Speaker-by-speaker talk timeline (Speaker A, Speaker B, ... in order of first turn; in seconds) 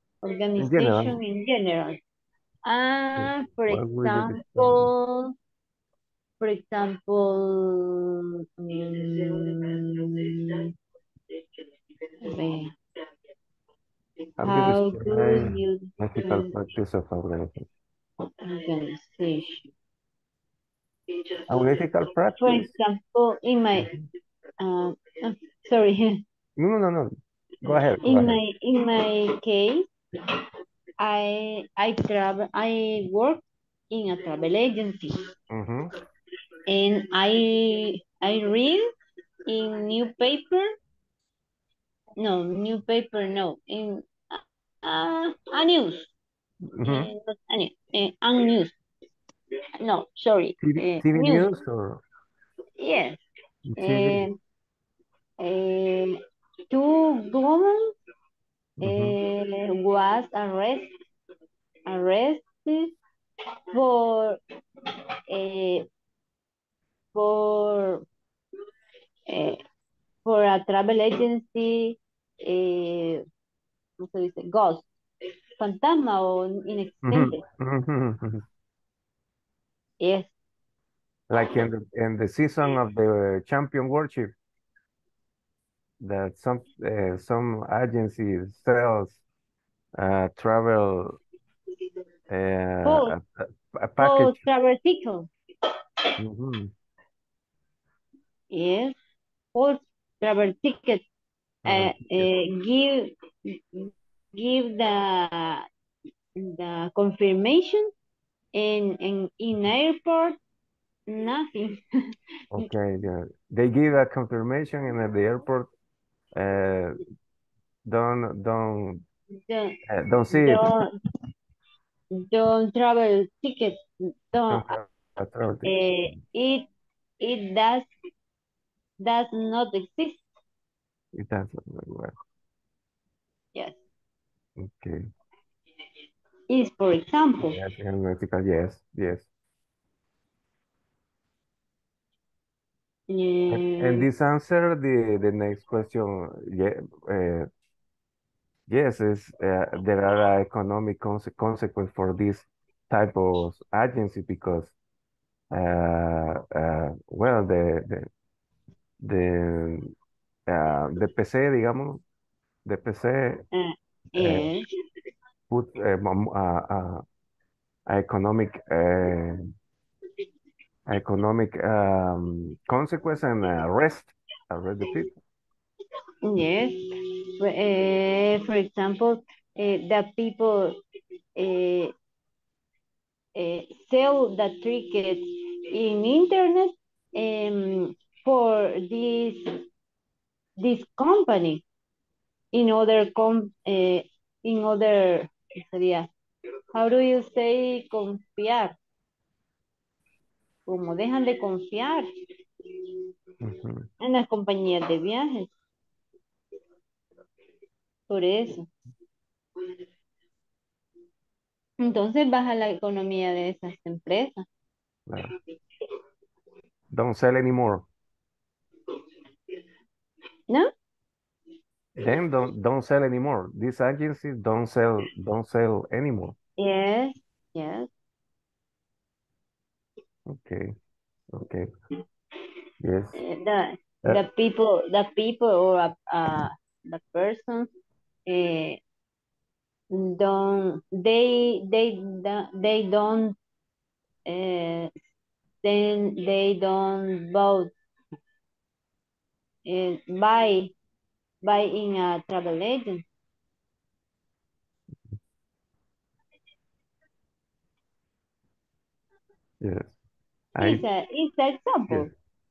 Speaker A: 0.2-2.0, 2.6-5.3, 6.4-10.6, 12.2-12.7, 14.4-16.5, 18.4-19.7, 22.4-24.0, 24.6-26.2, 28.0-29.9, 31.0-35.1, 36.7-38.9, 39.5-40.7, 42.2-46.1, 46.8-48.7, 49.8-51.5, 52.8-53.2, 53.8-54.3, 55.4-56.2, 56.7-57.9, 58.8-60.9, 61.9-62.9, 63.7-64.4, 65.3-65.8, 67.1-68.0, 69.3-69.6, 70.2-73.2, 74.0-74.8, 75.6-77.4, 80.0-80.3, 92.8-93.2, 94.0-95.3, 98.5-99.0, 99.5-101.0, 101.7-105.7, 106.4-107.9, 108.5-110.4, 111.1-111.8, 119.5-119.8, 120.3-120.9, 122.2-123.8, 124.3-124.8, 125.6-126.7, 127.2-127.9, 129.0-130.2, 136.5-137.6, 143.1-144.1, 163.5-164.6, 176.2-176.8, 177.4-180.8, 181.4-181.9, 183.3-189.6, 190.6-191.6, 192.5-196.1, 196.7-198.7, 200.7-202.1, 204.0-205.5, 208.1-208.7, 211.8-214.4, 226.6-227.9, 233.1-237.7, 238.3-238.8, 239.9-243.3, 244.3-244.9, 245.6-247.7, 249.7-250.7, 251.4-253.0, 260.6-262.1
Speaker B: 0.6-1.2, 3.1-4.9, 14.4-17.7, 21.5-22.7, 26.6-27.1, 27.6-28.4, 35.5-35.9, 46.7-47.1, 50.6-52.0, 53.7-54.2, 58.8-59.1, 77.0-78.4, 81.3-84.3, 86.0-89.2, 90.0-91.2, 92.3-94.4, 96.2-96.7, 101.6-102.3, 112.5-115.7, 116.3-117.0, 117.8-119.0, 119.9-120.7, 124.5-126.2, 131.1-132.1, 134.6-135.1, 137.4-139.2, 143.5-147.5, 148.7-154.7, 155.5-158.1, 159.0-159.9, 160.5-162.0, 162.6-163.4, 164.2-164.5, 165.5-167.0, 167.9-169.5, 170.9-175.1, 203.4-203.9, 216.9-217.8, 222.0-226.3, 230.3-230.7, 231.3-231.7, 232.8-233.2, 259.6-259.9, 260.6-260.8